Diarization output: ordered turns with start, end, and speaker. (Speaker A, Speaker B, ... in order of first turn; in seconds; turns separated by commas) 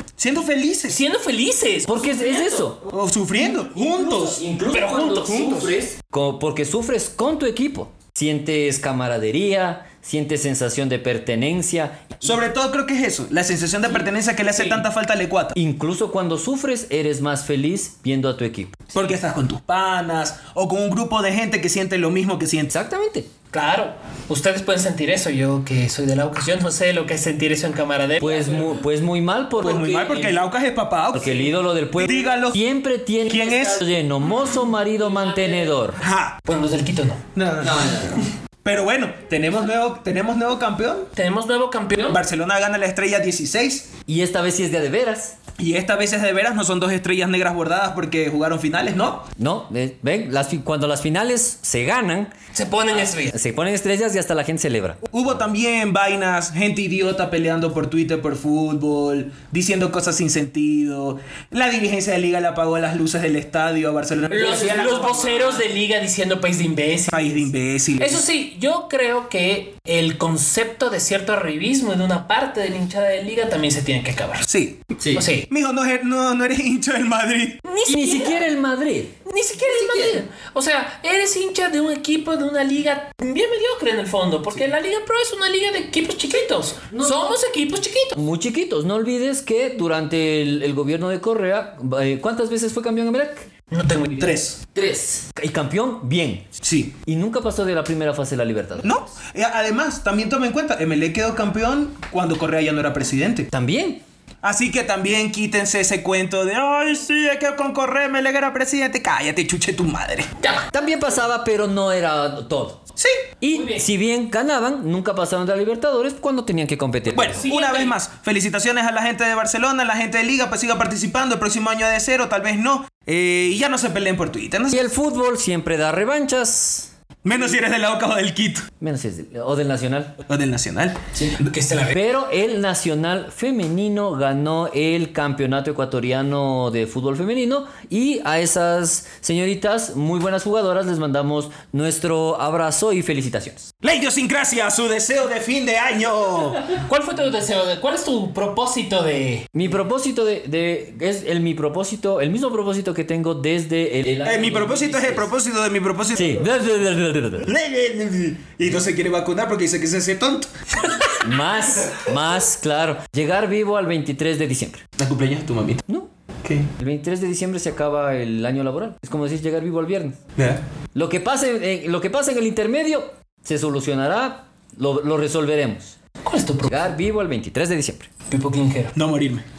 Speaker A: 0.2-1.0, Speaker B: 0.9-2.6, Speaker C: 1.9-12.4, Speaker A: 2.9-4.4, Speaker B: 4.7-5.5, Speaker A: 5.3-5.8, Speaker A: 12.2-15.6, Speaker C: 15.6-18.9, Speaker A: 18.9-22.7, Speaker C: 22.7-23.3, Speaker B: 23.5-28.8, Speaker C: 28.2-30.4, Speaker A: 29.6-32.6, Speaker C: 31.1-36.0, Speaker A: 33.3-33.8, Speaker A: 36.0-36.4, Speaker B: 36.5-37.2, Speaker A: 37.4-41.1, Speaker C: 37.6-38.2, Speaker B: 41.2-42.2, Speaker A: 42.1-43.9, Speaker C: 44.1-45.4, Speaker A: 45.6-49.3, Speaker C: 49.4-52.3, Speaker B: 52.5-53.3, Speaker C: 53.1-55.1, Speaker A: 55.1-65.6, Speaker B: 64.3-67.4, Speaker A: 67.1-68.2, Speaker B: 68.0-74.5, Speaker A: 74.5-75.0, Speaker C: 75.0-75.2, Speaker B: 75.1-75.5, Speaker A: 75.5-77.6, Speaker B: 77.7-78.4, Speaker C: 77.9-80.2, Speaker B: 79.3-88.2, Speaker C: 86.9-87.4, Speaker C: 88.2-93.5, Speaker B: 93.7-94.3, Speaker A: 94.2-94.6, Speaker C: 94.7-96.5, Speaker A: 96.6-97.0, Speaker C: 97.0-98.9, Speaker A: 98.8-103.5, Speaker C: 103.5-104.0, Speaker A: 104.4-110.3, Speaker B: 110.4-110.7, Speaker C: 110.7-112.8, Speaker C: 113.4-117.5, Speaker B: 113.5-113.9, Speaker A: 117.1-124.8, Speaker B: 117.4-118.0, Speaker C: 124.7-126.9, Speaker A: 127.2-128.7, Speaker C: 128.8-130.2, Speaker A: 130.3-131.5, Speaker B: 131.4-132.0, Speaker C: 131.9-143.7, Speaker A: 143.8-146.8, Speaker B: 146.8-149.5, Speaker C: 149.5-155.3, Speaker A: 154.2-156.5, Speaker C: 156.1-157.5, Speaker A: 157.4-161.0, Speaker C: 161.2-164.8, Speaker A: 165.0-165.8, Speaker A: 166.4-166.7, Speaker C: 166.8-170.2, Speaker A: 170.4-170.6, Speaker C: 170.9-176.0, Speaker B: 176.2-176.8, Speaker C: 176.7-178.1, Speaker B: 178.3-178.9, Speaker A: 178.9-179.5